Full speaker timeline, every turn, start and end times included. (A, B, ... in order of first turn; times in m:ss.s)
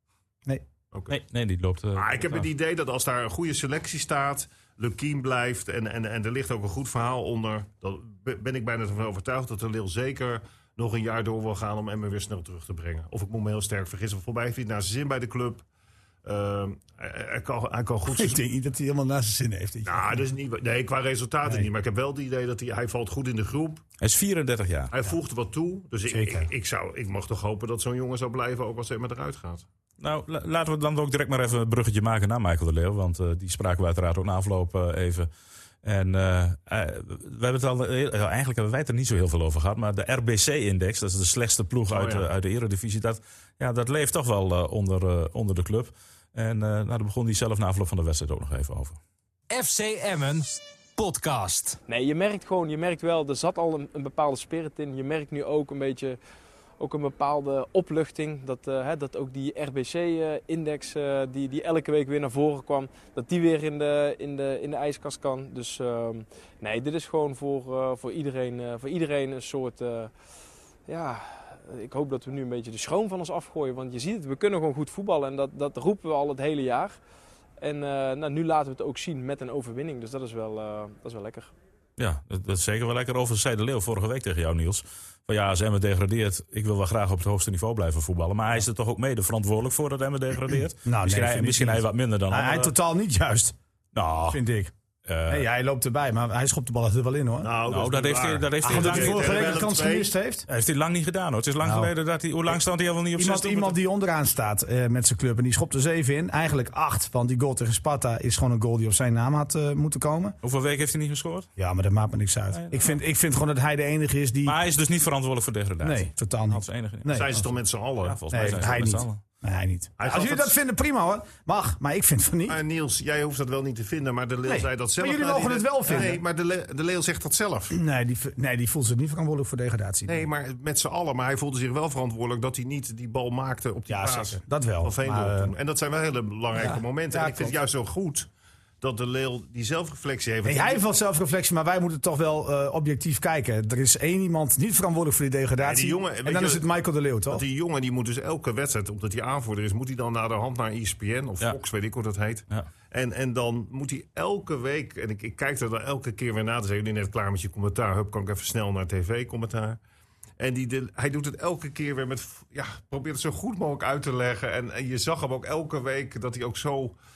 0:00.9-0:01.2 A
0:01.1-0:02.4 B
0:01.9-0:15.6 A
0:16.2-0:18.4 A
0:18.1-0:20.2 C
0:19.8-0:23.8 A
0:24.0-0:24.9 B
0:24.9-0:29.7 A
0:26.1-0:26.5 C
0:30.0-0:35.3 B
0:35.8-0:49.0 B
0:41.9-0:42.3 A
0:49.5-0:51.8 D
0:51.9-0:56.2 E
0:56.8-1:10.1 E
1:10.9-1:17.0 E
1:17.6-1:21.5 E
1:22.0-1:32.7 B
1:30.8-1:33.6 C
1:34.0-1:34.4 B
1:34.3-1:34.7 C
1:35.1-1:35.4 B
1:35.3-1:37.5 C
1:37.4-1:40.1 A
1:37.7-1:39.6 B
1:38.6-1:40.5 C
1:40.5-1:43.8 B
1:41.6-1:41.9 C
1:43.2-1:50.4 C
1:50.4-1:51.5 B
1:51.6-1:54.6 C
1:52.5-1:53.0 B
1:54.5-1:57.5 B
1:55.8-1:57.3 C
1:57.1-1:58.2 A
1:58.0-1:59.2 B
1:58.3-2:02.6 C
2:00.0-2:00.5 A
2:02.5-2:07.8 A
2:04.5-2:06.2 C
2:07.7-2:10.3 C
2:10.1-2:18.3 A
2:13.9-2:15.5 C
2:16.6-2:17.6 C
2:18.8-2:20.8 A
2:20.4-2:27.4 C
2:25.6-2:26.6 A
2:27.3-2:39.8 A
2:40.4-2:47.0 A